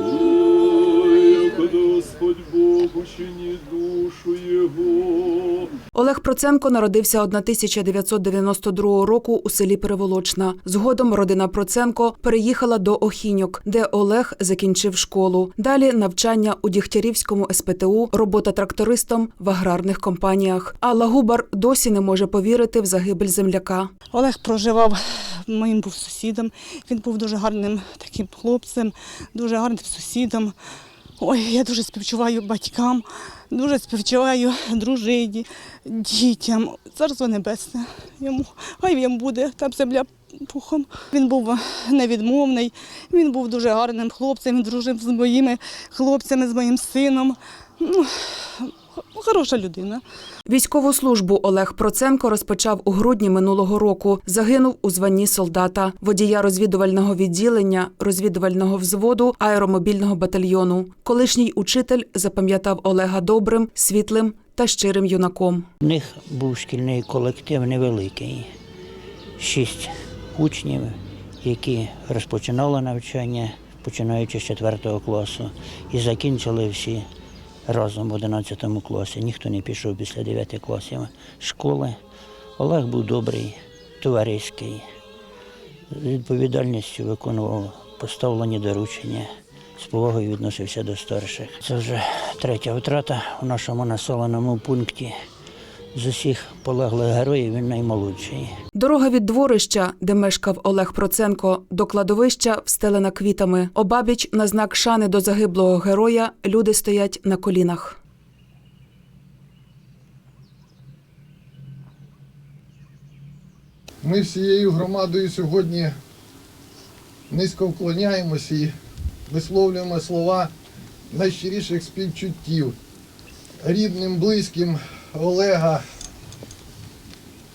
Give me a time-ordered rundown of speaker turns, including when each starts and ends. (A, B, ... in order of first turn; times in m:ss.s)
0:00.2-0:05.5 A
0:05.9-0:23.9 B
0:24.1-0:30.6 C
0:31.2-0:50.0 C
0:50.4-1:05.7 B
1:05.8-1:08.4 D
1:09.4-1:17.0 D
1:17.7-1:21.9 D
1:22.6-1:24.8 D
1:25.9-1:29.2 D
1:29.8-1:35.1 D
1:35.9-1:38.5 D
1:38.7-1:48.0 B
1:54.0-1:55.9 E
1:57.3-1:58.7 E
1:59.3-2:00.5 E
2:01.1-2:02.7 E
2:03.6-2:05.8 E